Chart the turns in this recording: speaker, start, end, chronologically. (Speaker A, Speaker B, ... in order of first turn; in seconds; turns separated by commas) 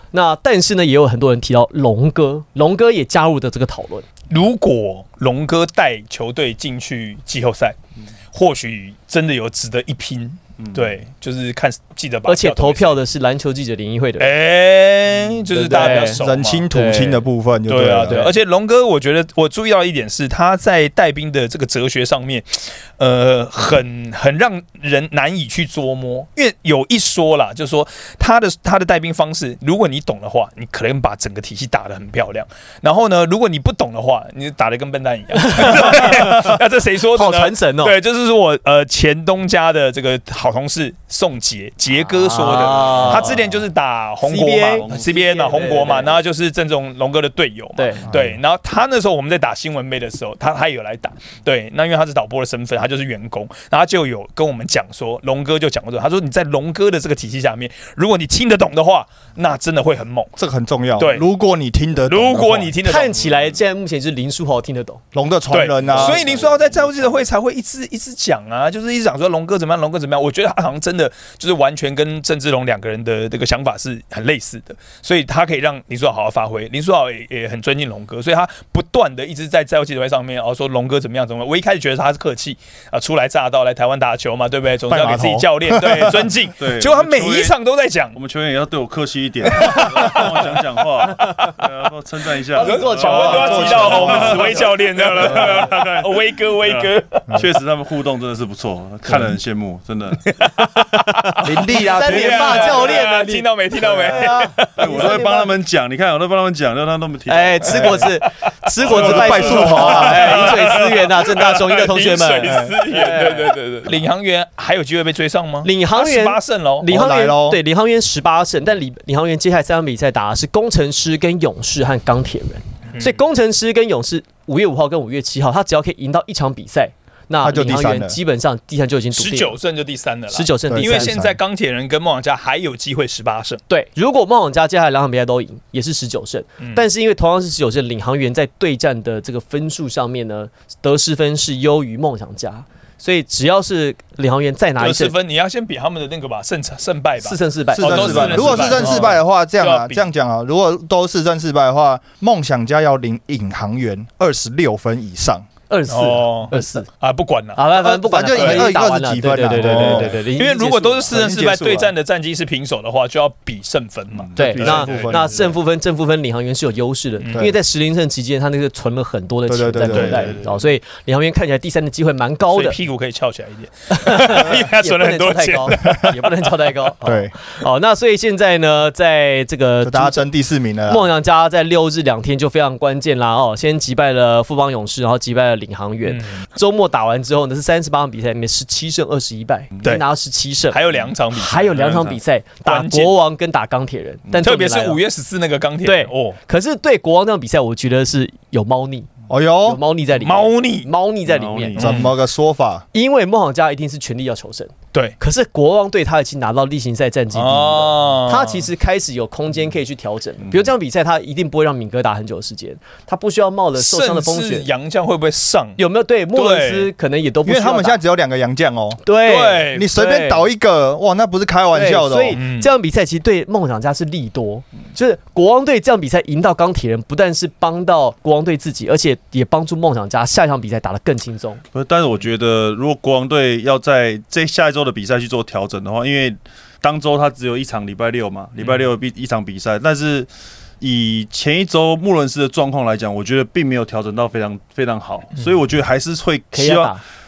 Speaker A: 0.1-4.0, Speaker B: 4.3-7.8, Speaker B: 8.3-13.0, Speaker C: 10.6-10.9, Speaker A: 12.3-14.3, Speaker B: 14.2-16.7, Speaker A: 15.5-17.2, Speaker D: 15.7-18.2, Speaker B: 17.7-60.3, Speaker A: 18.1-18.4, Speaker A: 35.3-36.6, Speaker A: 37.1-38.0, Speaker A: 42.0-43.4, Speaker A: 44.2-46.2, Speaker C: 44.8-45.8, Speaker A: 47.8-48.1, Speaker D: 60.4-62.8, Speaker B: 61.0-61.3, Speaker B: 62.1-63.2, Speaker A: 62.8-65.0, Speaker D: 65.1-66.3, Speaker B: 65.5-88.2, Speaker C: 66.0-67.2, Speaker D: 84.9-86.3, Speaker C: 86.6-87.5, Speaker C: 88.2-100.3, Speaker A: 92.5-94.6, Speaker B: 92.6-97.4, Speaker D: 93.2-94.6, Speaker B: 100.4-104.7, Speaker A: 101.0-105.5, Speaker D: 101.4-102.9, Speaker C: 104.8-108.1, Speaker A: 107.3-113.5, Speaker D: 107.7-108.0, Speaker C: 108.8-111.1, Speaker D: 108.9-110.4, Speaker B: 109.0-116.9, Speaker D: 112.4-112.8, Speaker A: 115.6-129.6, Speaker D: 116.9-117.6, Speaker B: 122.9-123.2, Speaker D: 127.4-128.2, Speaker B: 129.2-133.6, Speaker A: 130.3-131.2, Speaker D: 130.7-131.4, Speaker A: 133.7-145.1, Speaker B: 144.8-150.1, Speaker A: 147.2-149.2, Speaker D: 147.7-155.5, Speaker A: 155.7-156.9, Speaker B: 155.9-157.7, Speaker A: 157.6-161.2, Speaker D: 157.8-160.2, Speaker B: 158.3-158.7, Speaker B: 159.7-165.1, Speaker D: 161.1-161.9, Speaker C: 164.2-165.1, Speaker D: 164.4-165.6, Speaker A: 164.4-172.8, Speaker B: 167.2-167.5, Speaker D: 169.5-170.4, Speaker B: 169.9-170.6, Speaker B: 172.5-176.5, Speaker A: 173.9-180.3, Speaker D: 177.0-177.3, Speaker D: 179.8-181.1, Speaker A: 180.9-195.0, Speaker B: 186.1-186.4, Speaker B: 190.7-192.1, Speaker C: 191.8-192.2, Speaker B: 192.7-193.2, Speaker B: 194.4-196.4, Speaker A: 195.8-199.1, Speaker D: 199.3-199.8, Speaker A: 199.7-201.8, Speaker B: 200.2-200.9, Speaker C: 201.3-202.1, Speaker B: 201.8-202.1, Speaker D: 201.8-202.8, Speaker A: 202.9-214.7, Speaker B: 207.3-208.7, Speaker B: 213.8-215.8, Speaker A: 215.8-218.0, Speaker B: 216.3-216.9, Speaker D: 217.4-219.0, Speaker A: 219.1-220.4, Speaker B: 219.2-219.9, Speaker D: 219.7-222.4, Speaker A: 221.7-231.6, Speaker B: 222.3-222.7, Speaker C: 231.7-240.3, Speaker C: 240.8-246.9, Speaker A: 246.5-247.0